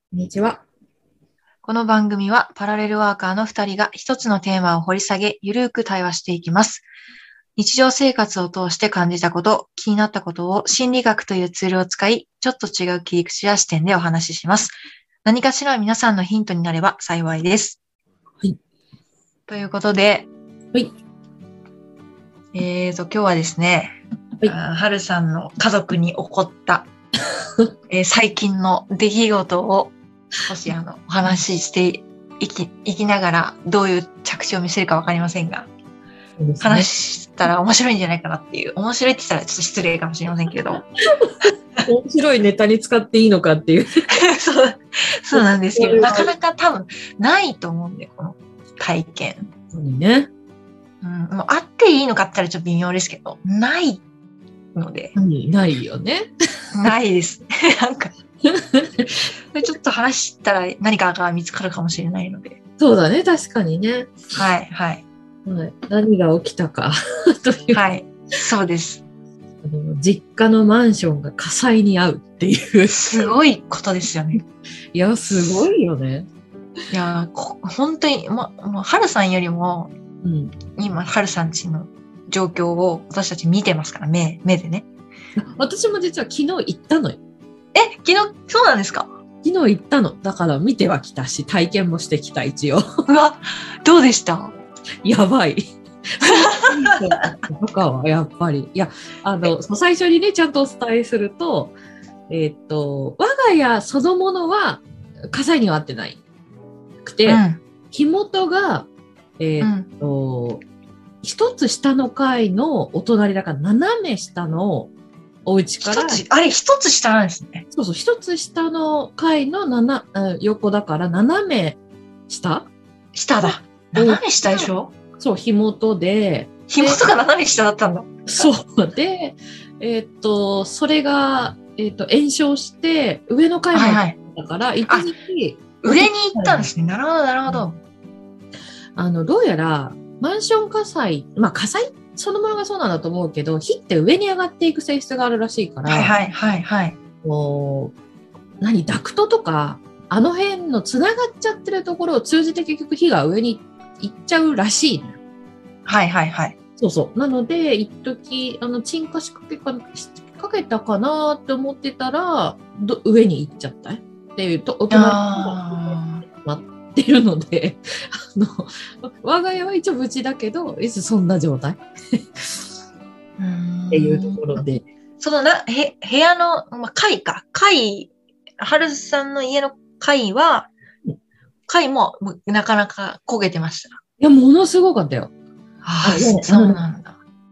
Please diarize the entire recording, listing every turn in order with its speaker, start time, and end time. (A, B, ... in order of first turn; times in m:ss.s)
0:00.1-0:00.6 A
0:01.6-0:06.8 B
0:07.6-0:14.7 B
0:15.2-0:17.8 B
0:19.5-0:20.3 B
0:22.5-0:26.9 B
0:27.9-0:29.9 B
0:30.4-0:35.7 B
0:36.4-0:36.9 A
0:36.6-0:40.8 B
0:41.1-0:44.0 A
0:44.1-0:49.4 B
0:45.3-0:46.3 A
0:49.7-0:50.3 A
0:51.0-0:54.0 B
0:54.7-0:55.1 B
0:55.1-0:56.3 A
0:56.7-0:58.1 B
0:58.4-0:59.3 A
0:59.5-1:02.6 B
1:02.8-1:04.2 A
1:04.3-1:05.0 B
1:05.4-1:07.8 A
1:07.7-1:09.0 B
1:09.6-1:13.3 A
1:12.9-1:14.4 B
1:14.9-1:16.3 A
1:16.9-1:19.9 B
1:20.2-1:20.5 A
1:20.7-1:24.8 B
1:25.4-1:27.2 A
1:27.7-1:29.1 B
1:29.4-1:32.8 A
1:33.1-1:34.5 B
1:35.0-1:41.7 A
1:36.2-1:36.9 B
1:42.3-1:46.2 A
1:47.0-1:48.9 A
1:47.3-1:47.6 B
1:49.4-1:50.6 A
1:49.6-1:49.9 B
1:51.2-1:54.9 A
1:55.4-1:56.2 A
1:55.8-1:57.6 B
1:57.7-2:02.7 A
2:03.1-2:04.9 B
2:03.4-2:07.1 A
2:06.7-2:08.4 B
2:08.3-2:16.7 A
2:13.7-2:14.2 B
2:15.8-2:17.8 B
2:19.0-2:26.2 A
2:25.8-2:27.0 B
2:27.2-2:27.9 A
2:28.6-2:35.2 A
2:35.8-2:36.5 B
2:36.8-2:52.6 A
2:44.9-2:46.2 B
2:53.4-2:54.6 B
2:53.9-2:54.8 A
2:55.2-3:00.7 B
3:01.7-3:04.0 B
3:04.2-3:05.3 A
3:05.8-3:07.2 B
3:06.0-3:06.8 A